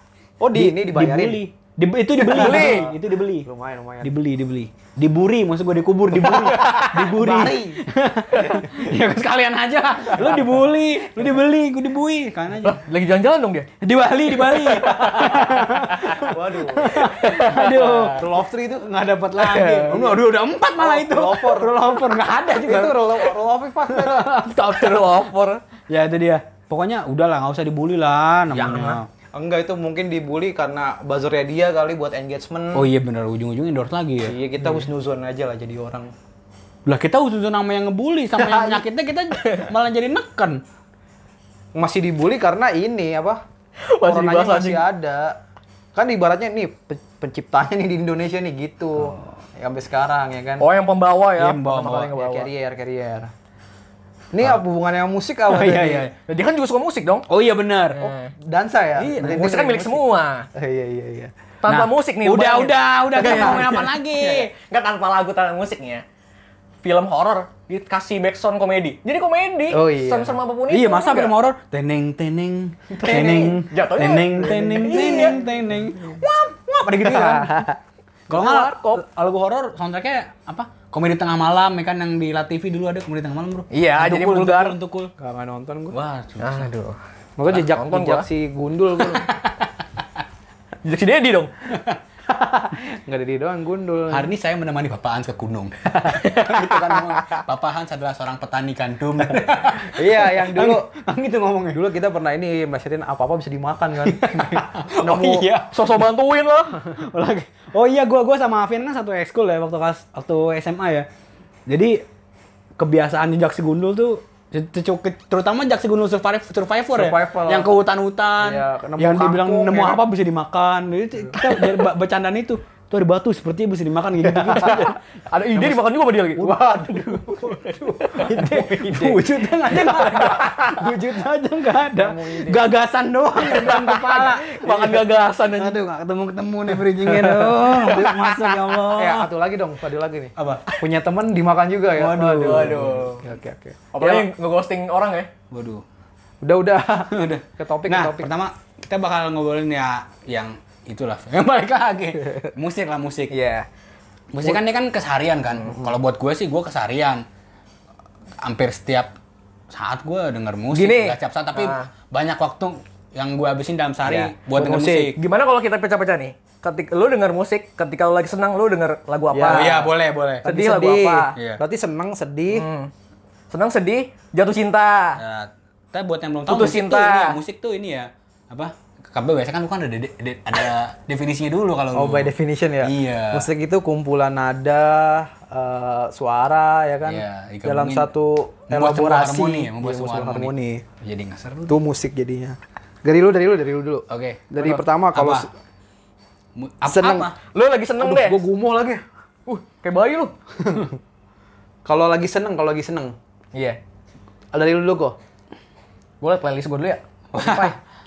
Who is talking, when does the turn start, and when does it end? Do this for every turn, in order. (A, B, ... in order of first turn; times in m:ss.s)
0:00.4-0:01.4 A
0:00.5-0:03.5 B
0:02.2-0:04.1 A
0:02.3-0:02.9 C
0:04.0-0:12.8 B
0:06.3-0:07.8 A
0:06.5-0:07.0 C
0:12.6-0:13.7 C
0:13.8-0:23.3 B
0:14.5-0:16.2 C
0:16.1-0:20.2 A
0:17.0-0:18.1 C
0:19.4-0:20.0 C
0:20.8-0:24.3 A
0:23.9-0:25.3 B
0:24.5-0:25.6 C
0:25.9-0:29.1 B
0:28.5-0:29.0 C
0:29.3-0:32.9 A
0:32.7-0:34.4 B
0:34.3-0:36.1 A
0:36.9-0:40.6 B
0:38.4-0:38.8 A
0:41.8-0:43.4 A
0:43.9-0:44.8 C
0:44.0-0:45.4 A
0:46.0-0:50.7 A
0:50.6-0:52.5 C
0:51.4-0:52.1 B
0:52.1-0:53.3 A
0:54.3-0:56.1 A
0:55.5-0:56.1 B
0:56.3-0:57.3 C
0:57.3-0:58.0 B
0:57.9-0:58.3 C
0:58.0-1:00.0 A
0:59.0-1:00.5 C
1:00.5-1:01.3 A
1:01.6-1:06.0 C
1:01.7-1:04.5 B
1:03.2-1:03.6 A
1:06.8-1:11.3 C
1:09.7-1:10.4 A
1:10.7-1:17.5 B
1:13.0-1:13.4 A
1:13.0-1:15.4 C
1:14.5-1:15.5 A
1:16.9-1:17.8 A
1:18.3-1:19.0 C
1:18.3-1:25.1 B
1:23.7-1:24.8 C
1:25.2-1:26.0 A
1:25.9-1:26.7 B
1:26.4-1:27.0 C
1:27.4-1:29.3 A
1:27.7-1:28.3 C
1:29.0-1:29.7 B
1:30.8-1:31.5 C
1:31.7-1:32.0 B
1:32.3-1:34.3 A
1:34.1-1:41.8 B
1:35.9-1:36.3 A
1:36.2-1:37.4 C
1:39.8-1:40.9 A
1:41.7-1:45.5 A
1:44.1-1:46.0 B
1:45.7-1:46.9 C
1:47.0-1:51.1 B
1:51.7-1:52.0 B
1:52.8-2:05.0 B
1:56.9-1:57.7 A
1:58.4-2:00.0 A
2:04.3-2:04.9 A
2:05.3-2:08.5 C
2:06.4-2:07.6 A
2:07.1-2:19.3 B
2:08.1-2:09.2 A
2:09.8-2:10.8 C
2:12.0-2:12.6 A
2:13.4-2:15.8 C
2:17.1-2:18.1 A
2:17.8-2:18.5 C
2:18.9-2:24.3 A
2:20.4-2:20.6 B
2:21.9-2:23.1 B
2:22.4-2:23.2 C
2:23.9-2:25.3 C
2:25.5-2:25.8 B
2:26.4-2:28.3 A
2:27.1-2:33.3 B
2:33.3-2:33.7 C
2:34.3-2:37.2 B
2:38.4-2:39.2 B
2:39.7-2:45.2 B
2:40.7-2:41.9 C
2:44.1-2:45.1 A
2:45.2-2:49.8 C
2:49.3-2:49.9 A
2:49.5-2:50.5 B
2:50.4-2:52.7 A
2:50.4-2:51.3 C
2:51.4-2:51.6 B
2:52.5-2:52.9 C
2:53.5-2:55.2 C
2:55.2-3:03.5 B
2:56.5-2:57.4 C
3:01.9-3:10.8 A
3:07.0-3:08.1 B
3:08.7-3:11.8 B
3:11.7-3:15.5 A
3:14.1-3:14.5 B
3:14.6-3:14.8 C
3:15.1-3:15.5 B
3:16.6-3:17.4 B
3:16.9-3:17.3 A
3:17.5-3:18.4 C
3:18.0-3:19.0 A
3:19.5-3:20.3 C
3:20.6-3:21.0 A
3:21.8-3:23.1 A
3:24.5-3:25.2 A
3:26.2-3:27.0 C
3:27.3-3:27.8 B
3:27.4-3:27.7 A